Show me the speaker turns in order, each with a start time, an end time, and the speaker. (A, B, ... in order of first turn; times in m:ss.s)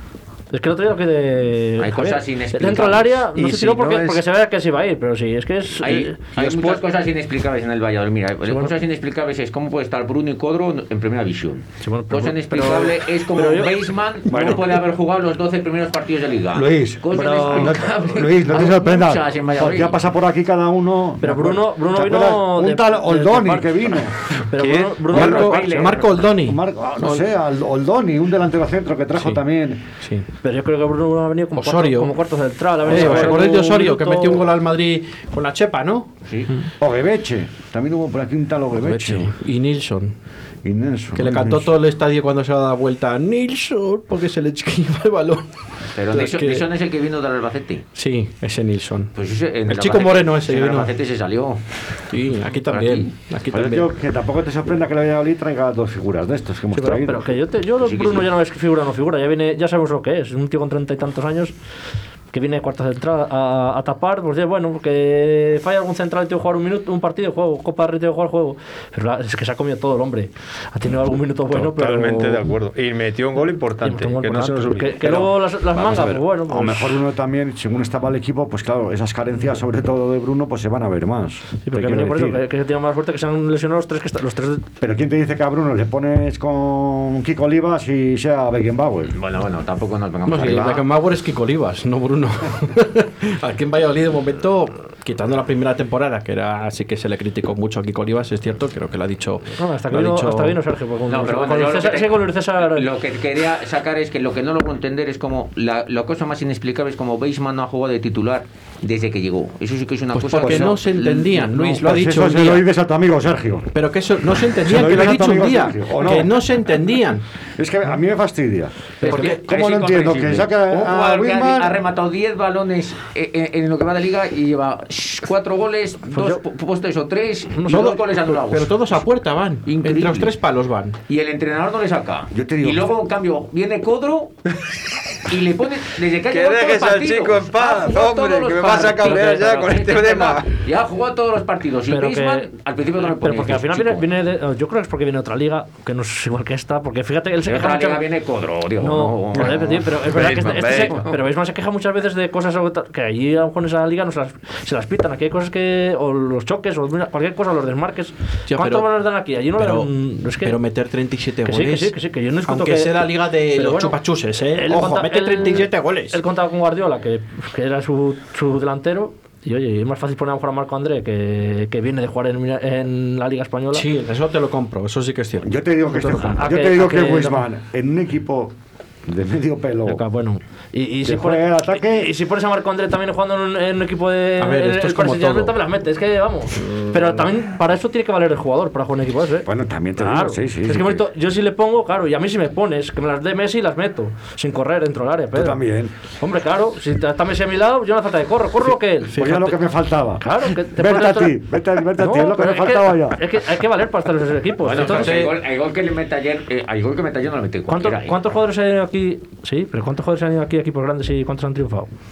0:00.5-0:06.2 A
0:01.8-0:03.2 B
0:03.3-0:04.2 C
0:05.8-0:20.1 B
0:06.4-0:06.8 C
0:08.5-0:08.7 A
0:11.8-0:13.7 A
0:14.3-0:14.8 D
0:16.5-0:24.1 D
0:17.1-0:17.9 A
0:21.2-0:25.6 A
0:24.6-0:25.1 C
0:25.1-0:26.3 B
0:25.1-0:27.2 E
0:26.3-0:29.8 D
0:30.0-0:30.3 E
0:30.4-0:34.4 A
0:31.5-0:32.1 E
0:32.8-0:36.7 E
0:36.8-0:39.3 D
0:38.7-0:40.1 E
0:40.6-0:41.7 D
0:41.2-0:45.5 E
0:46.0-0:47.8 B
0:46.1-0:46.6 E
0:47.9-0:49.1 E
0:49.2-0:51.6 B
0:49.7-0:50.9 E
0:52.1-0:53.9 E
0:52.6-0:53.1 B
0:53.5-0:57.4 D
0:56.7-1:01.5 A
0:57.8-0:58.3 B
1:02.3-1:12.4 A
1:11.5-1:15.4 C
1:13.8-1:17.0 A
1:15.7-1:22.4 D
1:21.6-1:24.6 A
1:24.8-1:29.1 D
1:29.1-1:30.8 B
1:30.2-1:40.6 E
1:39.6-1:42.9 A
1:41.1-1:51.5 B
1:50.1-1:52.7 E
1:50.4-1:50.8 D
1:51.6-1:53.7 D
1:53.7-1:57.2 E
1:54.6-1:56.3 D
1:57.6-2:01.8 D
1:59.0-2:09.0 B
1:59.1-1:59.4 E
2:06.1-2:06.4 A
2:07.5-2:07.9 A
2:07.7-2:11.0 E
2:09.6-2:10.3 B
2:11.1-2:14.4 B
2:12.3-2:13.0 D
2:15.3-2:24.1 B
2:16.3-2:20.5 C
2:21.9-2:22.5 A
2:23.0-2:28.0 A
2:27.4-2:31.2 B
2:28.8-2:40.6 A
2:29.4-2:31.0 C
2:38.5-2:38.9 E
2:39.6-2:41.9 E
2:41.4-2:44.0 A
2:42.4-2:46.2 E
2:44.5-2:53.9 A
2:53.7-2:56.4 E
2:55.4-2:58.5 D
2:56.4-2:57.4 A
2:59.0-3:00.0 D
2:59.9-3:15.6 A
3:01.0-3:02.1 D
3:04.4-3:05.5 E
3:09.4-3:11.0 D
3:15.3-3:15.9 D
3:16.2-3:19.3 A
3:19.1-3:19.6 E
3:19.2-3:23.2 D
3:20.2-3:21.4 A
3:22.0-3:25.2 A
3:24.6-3:28.2 B
3:24.7-3:25.4 E
3:27.7-3:31.9 A